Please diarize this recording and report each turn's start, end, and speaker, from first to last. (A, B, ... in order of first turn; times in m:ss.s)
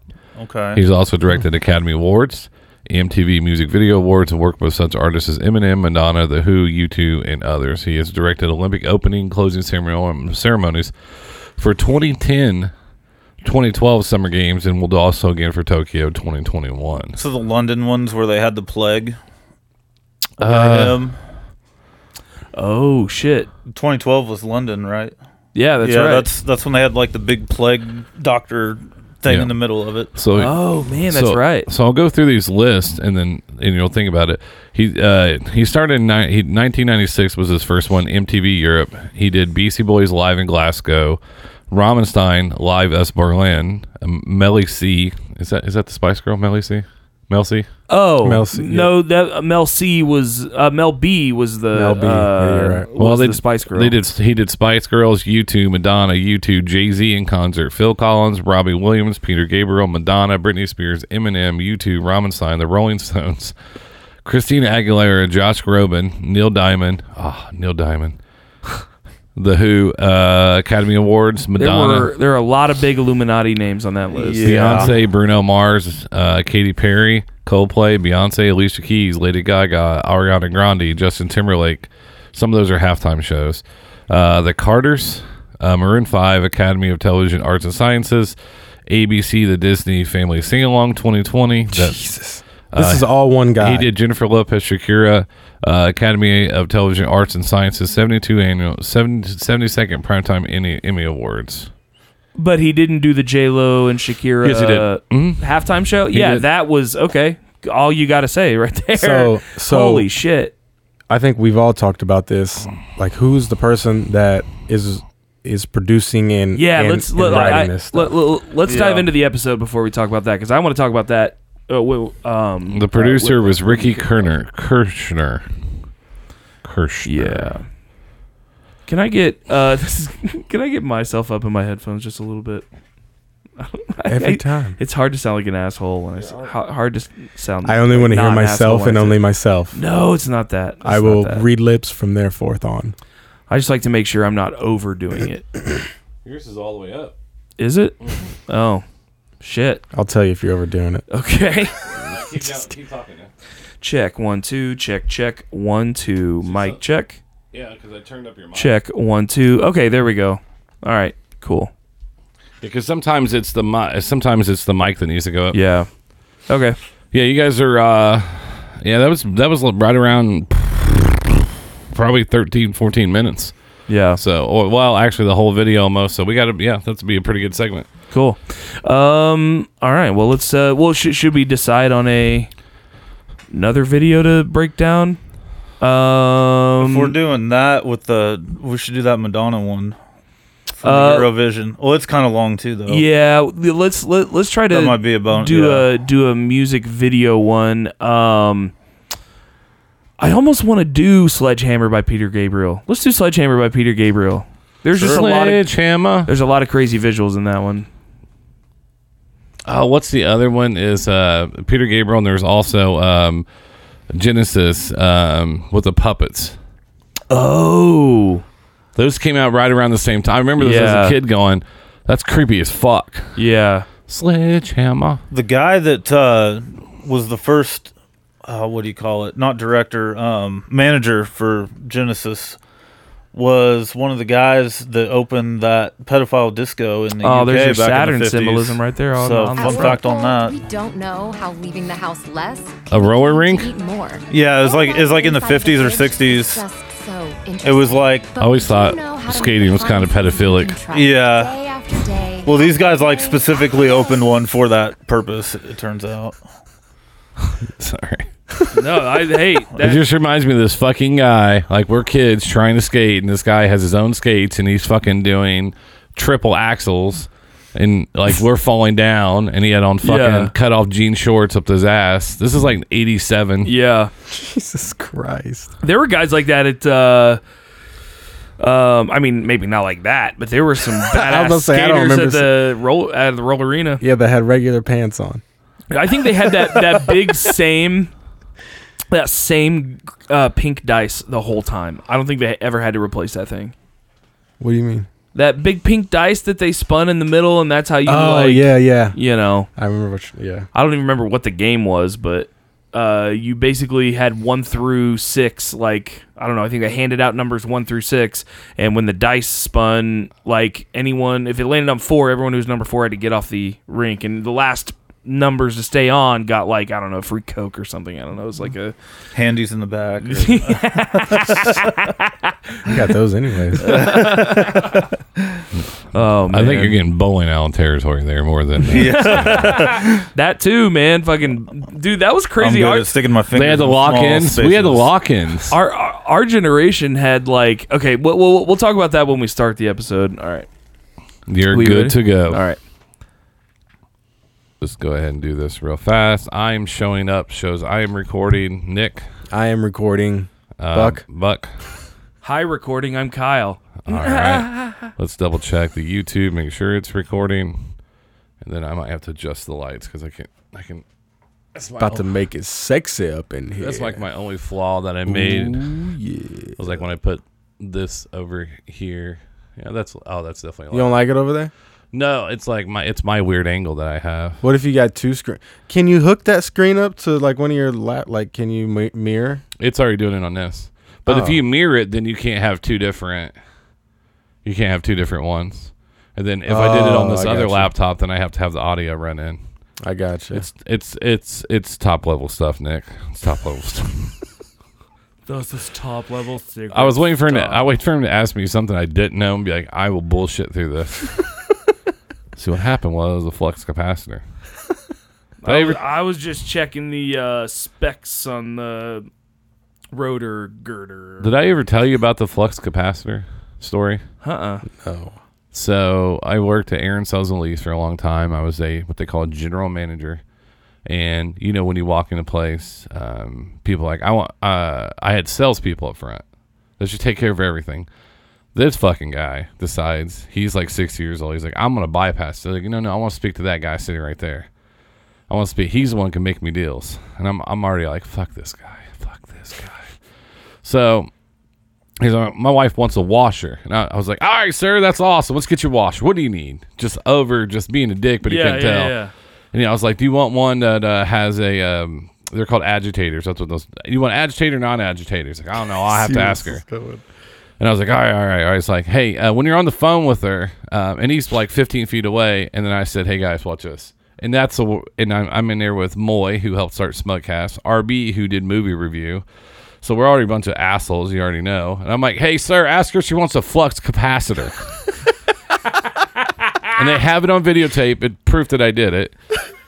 0:00.4-0:00.8 A
0:00.7-0:10.9 B
0:11.6-0:12.7 B
0:13.4-0:17.2 B
0:17.2-0:19.2 A
0:20.4-0:21.0 B
0:20.4-0:21.2 A
0:22.5-0:23.5 C
0:23.7-0:25.1 A
0:25.5-0:26.3 C
0:25.8-0:30.1 A
0:29.2-0:29.6 B
0:30.1-0:41.2 B
0:30.4-0:31.7 C
0:41.7-0:47.7 B
0:47.9-0:54.0 C
0:48.2-0:48.9 D
0:51.7-0:52.9 D
0:53.0-1:03.5 B
1:04.2-1:08.2 B
1:09.4-1:12.1 B
1:11.6-1:14.9 C
1:14.2-1:14.9 A
1:14.4-1:28.4 B
1:28.9-1:32.0 B
1:31.7-1:33.9 D
1:32.7-1:41.7 B
1:42.4-1:50.5 C
1:44.4-1:45.5 B
1:46.1-1:46.4 B
1:48.9-1:50.1 D
1:51.1-1:58.1 D
1:56.5-2:04.3 C
1:58.6-1:59.1 A
2:02.7-2:05.4 B
2:06.6-2:07.5 B
2:07.0-2:07.6 C
2:08.9-2:12.6 C
2:13.6-2:19.2 C
2:14.1-2:14.8 D
2:16.2-2:16.5 B
2:17.6-2:19.8 D
2:19.7-2:21.5 C
2:20.8-2:22.9 D
2:23.5-2:25.5 C
2:26.2-2:27.1 B
2:27.6-2:28.8 C
2:29.4-2:29.8 C
2:29.9-2:31.0 D
2:31.1-2:32.2 C
2:31.9-2:33.3 B
2:33.8-2:37.2 C
2:36.4-2:36.8 B
2:37.5-2:38.8 B
2:38.5-2:41.7 C
2:42.6-2:45.6 B
2:45.5-2:45.9 C
2:46.5-2:46.8 C
2:47.1-2:53.5 B
2:53.9-2:54.2 C
2:54.1-2:57.9 B
2:58.1-3:02.5 C
3:03.5-3:05.2 C
3:05.8-3:07.2 C
3:06.8-3:10.0 A
3:10.8-3:13.0 A
3:10.8-3:11.3 C
3:12.9-3:18.7 C
3:14.7-3:15.9 A
3:20.2-3:25.6 C
3:25.0-3:25.2 A
3:25.0-3:26.3 B
3:26.2-3:27.9 C
3:29.6-3:33.4 B
3:34.1-3:36.6 B
3:37.3-3:38.4 C
3:39.0-3:43.4 B
3:40.6-3:41.1 C
3:43.4-3:43.9 C
3:44.1-3:45.2 B
3:45.3-3:47.9 A
3:48.4-3:52.6 A
3:53.3-4:00.6 A
3:57.2-4:00.0 C
3:59.6-4:14.2 E
4:02.9-4:03.7 B
4:04.3-4:06.6 A
4:07.6-4:08.3 A
4:08.4-4:10.8 B
4:10.9-4:11.6 A
4:12.4-4:16.4 A
4:17.5-4:18.7 B
4:18.7-4:20.0 C
4:19.8-4:33.7 B
4:30.0-4:30.5 C
4:33.6-4:34.1 C
4:34.3-4:35.7 D
4:35.8-4:37.4 C
4:38.6-4:44.0 C
4:41.1-4:42.7 D
4:44.0-4:45.4 D
4:45.9-4:48.1 C
4:49.1-4:53.7 C
4:54.6-4:55.1 D
4:55.3-4:59.7 C
4:58.0-4:59.2 D
4:59.8-5:00.7 D
5:00.7-5:18.9 C
5:19.3-5:21.6 A
5:20.2-5:22.5 C
5:22.8-5:24.2 D
5:23.8-5:25.0 C
5:26.1-5:27.0 C
5:26.5-5:29.6 B
5:28.9-5:30.2 A
5:28.9-5:33.1 C
5:32.6-5:35.1 A
5:33.5-5:35.8 B
5:35.7-5:40.7 C
5:41.5-5:42.6 B
5:41.7-5:42.8 C
5:44.8-5:49.2 B
5:49.5-5:51.2 D
5:50.8-5:51.7 B
5:52.4-5:55.1 C
5:54.0-5:57.9 B
5:58.6-6:01.0 B
6:01.7-6:02.3 B
6:02.0-6:04.2 D
6:03.8-6:05.8 B
6:05.3-6:07.0 D
6:06.8-6:11.2 B
6:10.9-6:11.7 D
6:12.1-6:14.6 B
6:14.6-6:19.6 D
6:19.8-6:23.5 B
6:21.3-6:21.6 D
6:24.6-6:29.6 B
6:26.7-6:27.9 D
6:30.0-6:30.6 D
6:30.5-6:34.4 B
6:35.5-6:37.9 C
6:36.9-6:41.5 B
6:42.6-6:44.4 B
6:45.6-6:49.3 C
6:45.6-6:46.0 B
6:50.1-6:51.5 C
6:51.4-6:54.2 B
6:54.4-6:54.8 C
6:54.9-6:55.4 D
6:55.7-7:00.4 B
7:01.0-7:06.4 B
7:07.0-7:08.1 B
7:08.7-7:14.7 B
7:15.5-7:20.1 B
7:20.8-7:21.3 B
7:22.2-7:29.2 B
7:28.4-7:29.3 C
7:29.7-7:36.8 B
7:36.1-7:37.2 D
7:37.8-7:49.4 B
7:50.0-7:54.9 B
7:56.9-7:59.3 B